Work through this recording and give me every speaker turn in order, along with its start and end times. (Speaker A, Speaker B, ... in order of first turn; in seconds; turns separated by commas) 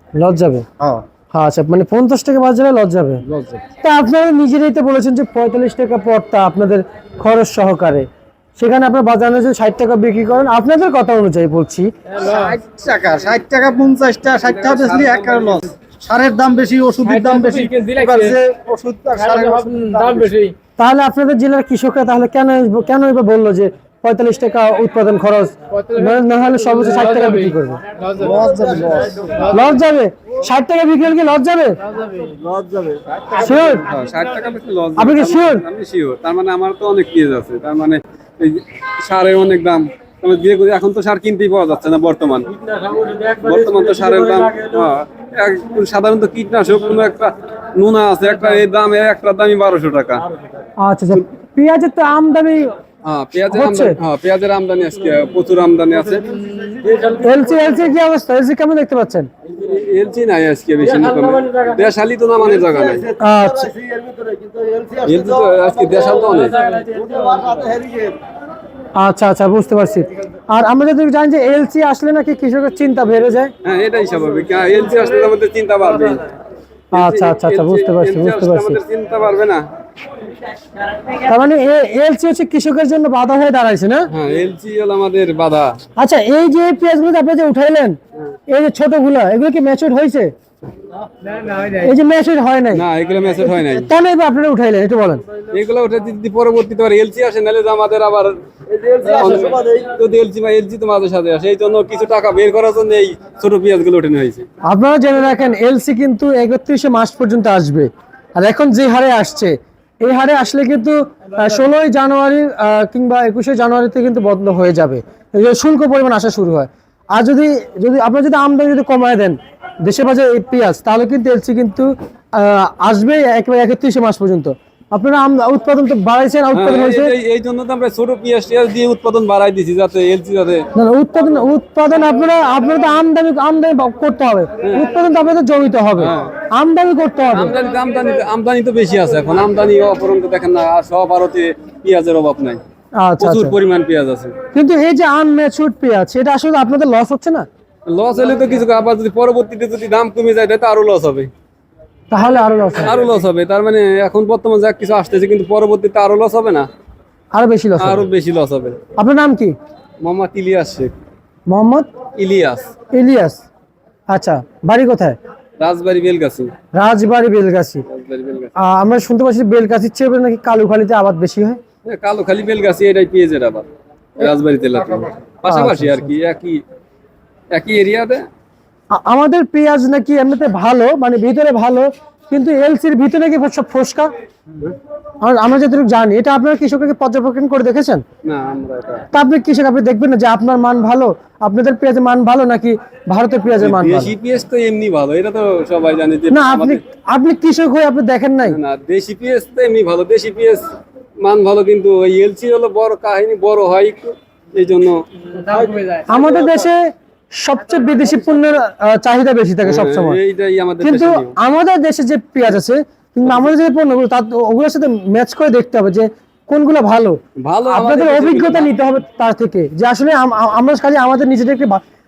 Speaker A: 0.1-0.7, Speaker B: 0.8-1.0, Speaker A: 1.3-3.2, Speaker B: 3.2-3.6, Speaker A: 3.8-11.9, Speaker C: 12.1-12.6, Speaker B: 12.2-20.3, Speaker D: 14.4-15.6, Speaker C: 17.0-18.4, Speaker C: 19.1-20.5, Speaker A: 20.8-27.8, Speaker C: 25.7-28.4, Speaker B: 28.2-29.3, Speaker C: 29.3-29.8, Speaker A: 29.5-31.8, Speaker C: 31.8-32.4, Speaker B: 32.3-33.4, Speaker A: 33.3-33.8, Speaker D: 33.6-50.2, Speaker A: 35.0-35.6, Speaker A: 50.8-52.7, Speaker D: 53.0-56.2, Speaker A: 53.5-54.0, Speaker C: 56.5-56.8, Speaker A: 57.1-59.3, Speaker D: 59.5-63.1, Speaker A: 63.2-63.7, Speaker D: 65.0-66.8, Speaker A: 69.0-73.5, Speaker D: 73.6-76.3, Speaker D: 76.9-79.6, Speaker A: 76.9-78.8, Speaker A: 81.2-84.1, Speaker D: 84.1-85.8, Speaker A: 86.0-88.0, Speaker A: 88.5-90.3, Speaker C: 91.2-91.8, Speaker A: 91.7-92.8, Speaker D: 92.7-93.9, Speaker A: 93.4-95.2, Speaker D: 95.5-104.5, Speaker A: 104.7-127.1, Speaker D: 126.5-130.7, Speaker A: 130.7-137.5, Speaker D: 136.0-136.3, Speaker D: 137.3-142.6, Speaker A: 143.0-143.6, Speaker D: 143.2-144.3, Speaker A: 144.5-147.5, Speaker D: 147.8-151.3, Speaker A: 152.1-152.9, Speaker D: 152.8-156.7, Speaker A: 157.3-158.1, Speaker D: 157.8-158.8, Speaker A: 158.9-159.6, Speaker D: 160.0-160.9, Speaker A: 161.5-161.9, Speaker D: 162.2-162.7, Speaker A: 162.9-163.4, Speaker A: 164.1-165.2, Speaker D: 165.6-166.5, Speaker A: 166.7-167.8, Speaker D: 167.9-168.5, Speaker A: 168.6-171.6, Speaker D: 171.8-176.6, Speaker A: 175.5-176.1, Speaker D: 177.5-178.3, Speaker A: 178.9-184.1, Speaker A: 185.2-188.0, Speaker D: 188.2-189.1, Speaker A: 189.1-194.1, Speaker D: 193.6-196.8, Speaker A: 196.3-198.6, Speaker D: 198.5-200.6, Speaker D: 201.2-205.0, Speaker C: 205.4-206.1, Speaker A: 206.1-210.2, Speaker D: 209.6-211.3, Speaker A: 210.8-221.8, Speaker D: 217.4-218.7